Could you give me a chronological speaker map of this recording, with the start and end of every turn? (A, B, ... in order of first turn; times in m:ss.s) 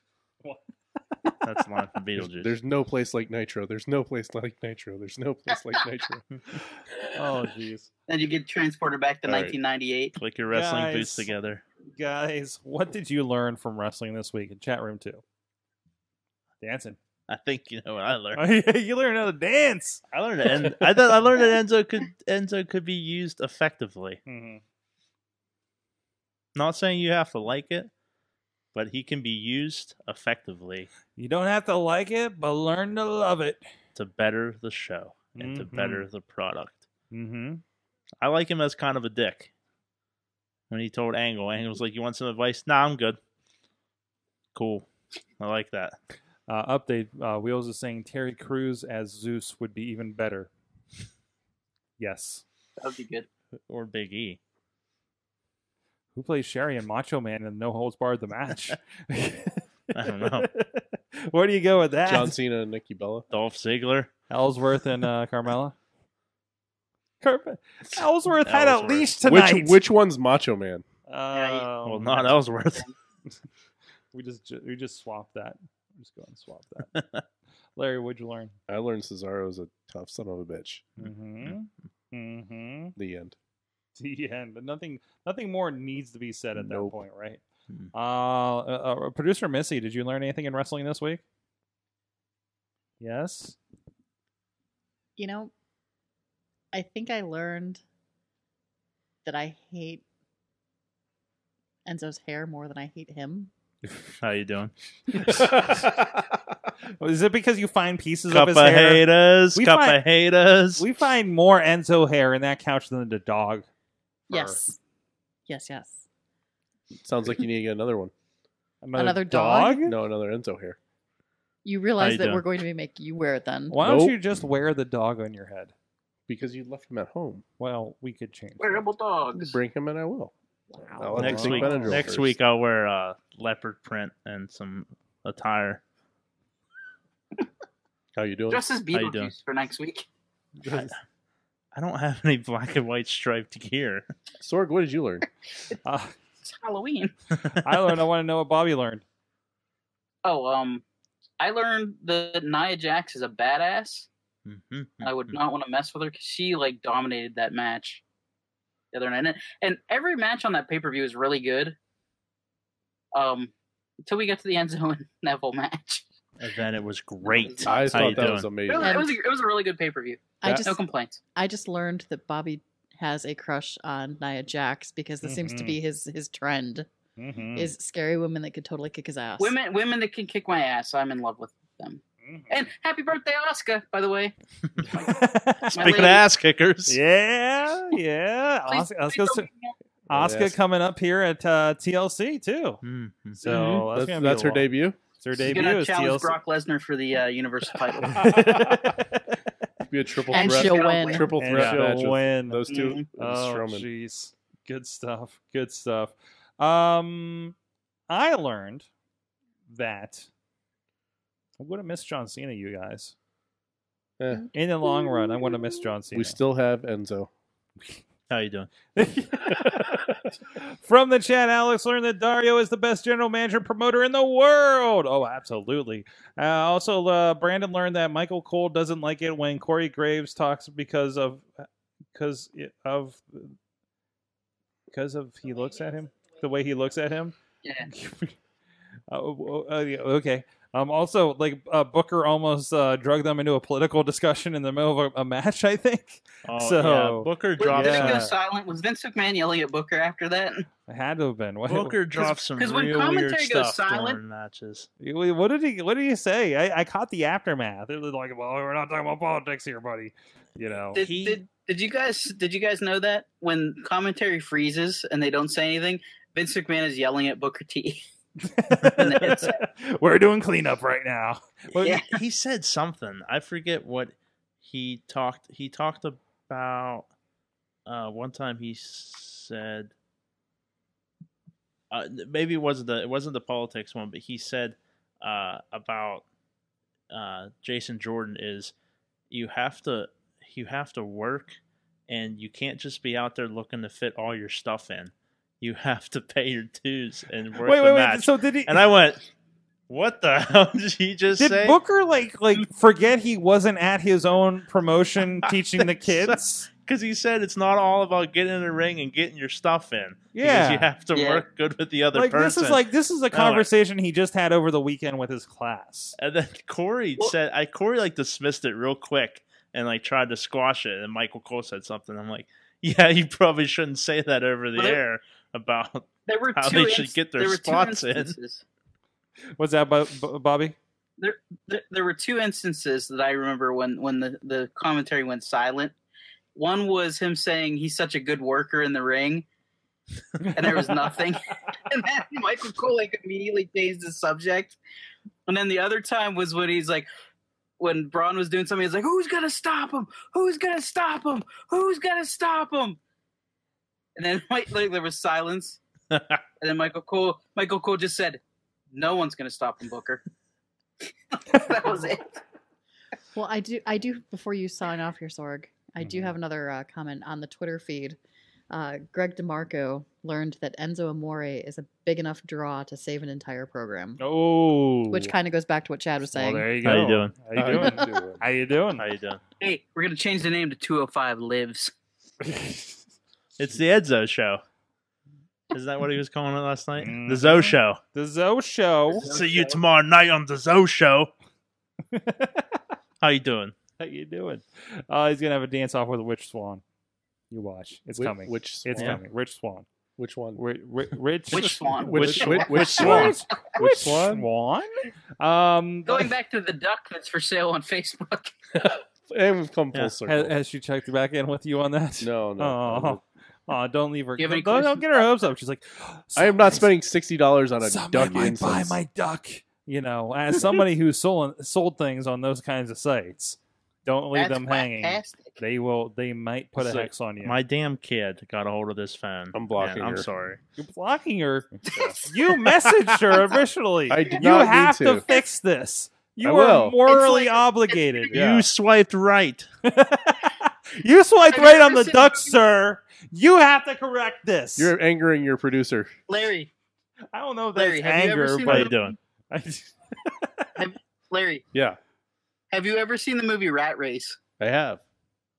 0:00.4-0:01.4 A
0:01.4-0:02.5 B
0:02.2-0:06.2 C
0:07.1-0:07.9 A
0:08.1-0:10.2 D
0:09.2-0:09.6 C
0:10.2-0:11.6 B
0:10.5-0:11.3 A
0:11.9-0:15.2 A
0:16.6-0:17.0 A
0:17.3-0:18.4 B
0:18.3-0:20.0 A
0:20.1-0:24.2 B
0:24.3-0:24.6 A
0:26.5-0:27.9 B
0:28.7-0:30.9 B
0:31.2-0:33.6 A
0:33.9-0:36.8 B
0:35.4-0:36.0 A
0:37.1-0:37.6 A
0:38.2-0:39.5 B
0:40.7-0:43.2 B
0:44.5-0:44.9 B
0:45.4-0:46.0 B
0:46.5-0:50.5 A
0:52.0-0:52.4 A
0:52.8-0:53.3 D
0:53.7-0:54.4 B
0:56.1-1:02.4 A
0:59.9-1:00.5 B
1:02.0-1:03.2 C
1:03.3-1:04.1 B
1:04.3-1:05.7 A
1:07.2-1:09.8 A
1:07.9-1:09.1 B
1:09.2-1:10.8 C
1:11.1-1:12.3 A
1:11.3-1:11.7 D
1:11.8-1:12.9 B
1:14.1-1:16.9 A
1:16.9-1:17.2 B
1:17.8-1:18.5 A
1:18.7-1:20.9 C
1:21.0-1:22.9 A
1:23.0-1:23.4 C
1:24.0-1:27.4 A
1:26.6-1:27.0 C
1:27.9-1:31.2 A
1:33.0-1:33.6 A
1:35.2-1:35.5 E
1:36.7-1:37.8 E
1:39.2-1:40.0 E
1:41.8-1:43.5 E
1:44.2-1:45.5 B
1:45.1-1:46.0 A
1:47.0-1:50.0 A
1:48.3-1:50.8 B
1:50.8-1:53.7 A
1:54.3-1:54.6 A
1:54.3-1:54.8 E
1:55.5-1:56.0 E
1:57.0-1:58.1 C
1:58.8-1:59.9 A
1:59.0-1:59.8 E
1:59.8-2:00.8 C
2:01.6-2:03.8 E
2:02.0-2:02.4 B
2:03.7-2:05.7 A
2:03.8-2:04.2 C
2:06.3-2:07.4 C
2:07.6-2:08.8 A
2:08.6-2:09.6 D
2:09.3-2:10.3 C
2:10.8-2:11.1 E
2:10.9-2:12.4 C
2:11.0-2:12.0 A
2:11.2-2:15.8 B
2:18.2-2:18.6 C
2:18.5-2:20.0 D
2:18.9-2:19.3 B
2:20.7-2:20.9 B
2:21.7-2:24.0 B
2:24.4-2:25.3 C
2:25.8-2:26.1 A
2:26.4-2:27.1 D
2:27.5-2:29.0 A
2:30.2-2:30.8 D
2:31.4-2:34.1 D
2:34.4-2:35.4 B
2:35.0-2:38.0 D
2:38.9-2:41.8 D
2:43.1-2:43.5 D
2:44.0-2:46.0 D
2:46.4-2:48.5 B
2:47.2-2:51.2 D
2:47.6-2:49.0 C
2:48.8-2:49.2 E
2:50.4-2:50.7 E
2:51.3-2:56.9 E
2:55.2-2:55.8 A
2:57.2-2:57.7 A
2:57.5-2:59.5 E
2:59.4-3:04.3 D
3:02.2-3:02.5 A
3:04.9-3:05.2 D
3:04.9-3:06.0 A
3:05.7-3:07.0 B
3:05.7-3:06.2 D
3:06.9-3:09.5 A
3:08.7-3:09.7 D
3:10.1-3:10.6 C
3:10.1-3:12.8 A
3:12.8-3:13.4 B
3:13.4-3:16.3 A
3:13.4-3:13.8 D
3:13.9-3:15.0 C
3:15.4-3:18.4 D
3:18.0-3:19.4 A
3:18.2-3:19.0 C
3:19.9-3:23.9 C
3:20.3-3:21.4 E
3:20.3-3:21.3 D
3:21.4-3:22.6 A
3:22.7-3:23.0 D
3:23.2-3:27.5 A
3:28.1-3:28.9 A
3:29.7-3:30.3 A
3:31.6-3:33.1 A
3:34.2-3:34.5 C
3:34.5-3:36.4 A
3:36.1-3:37.3 C
3:38.3-3:38.7 B
3:38.9-3:40.0 A
3:39.8-3:40.1 C
3:40.6-3:51.5 A
3:52.1-3:53.5 A
3:54.9-3:58.4 A
3:59.1-4:08.3 A
4:06.4-4:08.3 B
4:07.6-4:10.7 D
4:10.9-4:12.0 A
4:11.7-4:14.9 B
4:12.1-4:14.2 D
4:15.0-4:21.0 A
4:20.9-4:28.0 D
4:21.0-4:21.4 B
4:28.4-4:32.0 A
4:28.9-4:29.6 D
4:31.7-4:37.1 B
4:31.8-4:32.2 D
4:37.8-4:39.9 B
4:41.9-4:46.2 B
4:47.1-4:48.7 B
4:49.3-4:59.2 B
4:57.6-4:58.8 A
4:59.9-5:01.8 B
5:01.4-5:06.7 A
5:05.4-5:13.7 B
5:10.3-5:10.9 A
5:11.1-5:11.4 D
5:12.1-5:16.2 A
5:16.2-5:28.4 B
5:24.8-5:25.0 D
5:26.3-5:28.6 D
5:29.6-5:30.8 A
5:31.2-5:35.9 D
5:36.5-5:39.4 D
5:40.4-5:41.0 A
5:40.4-5:44.8 D
5:45.5-5:47.1 D
5:47.8-5:53.0 D
5:54.2-5:55.8 D
5:56.6-5:58.4 D
5:58.9-6:00.2 D
6:01.3-6:02.4 D
6:03.3-6:08.2 E
6:06.0-6:06.3 A
6:08.7-6:14.2 E
6:14.2-6:15.3 A
6:15.1-6:16.7 E
6:16.3-6:19.1 A
6:16.8-6:17.3 B
6:17.5-6:18.4 C
6:17.8-6:18.1 E
6:19.0-6:19.4 B
6:19.6-6:21.9 D
6:22.4-6:23.0 A
6:23.6-6:24.6 B
6:25.7-6:28.0 B
6:27.0-6:29.3 A
6:29.1-6:29.8 D
6:29.2-6:31.3 B
6:32.1-6:32.8 A
6:33.2-6:33.7 B
6:34.0-6:36.8 A
6:37.5-6:39.8 A
6:38.2-6:39.2 C
6:38.9-6:39.2 B
6:40.2-6:40.6 C
6:40.6-6:46.3 A
6:41.5-6:43.3 D
6:41.5-6:43.4 B
6:41.9-6:44.5 C
6:46.0-6:48.5 D
6:48.7-6:50.5 C
6:50.2-6:56.9 A
6:52.2-6:53.2 C
6:54.4-6:55.3 D
6:56.4-6:59.0 C
6:57.8-7:07.6 A
7:04.3-7:05.6 D
7:06.8-7:10.6 B
7:09.5-7:10.3 C
7:10.8-7:18.4 A
7:11.9-7:12.6 D
7:14.1-7:15.3 C
7:16.4-7:17.0 C
7:17.1-7:18.2 D
7:18.3-7:19.7 B
7:18.3-7:18.7 C
7:19.8-7:24.9 A
7:21.5-7:22.5 D
7:24.8-7:26.1 C
7:26.3-7:26.7 D
7:27.3-7:29.0 A
7:27.7-7:28.9 D
7:28.7-7:29.2 B
7:29.5-7:30.8 A
7:30.8-7:31.6 D
7:31.7-7:32.0 C
7:32.7-7:34.4 D
7:34.6-7:35.0 C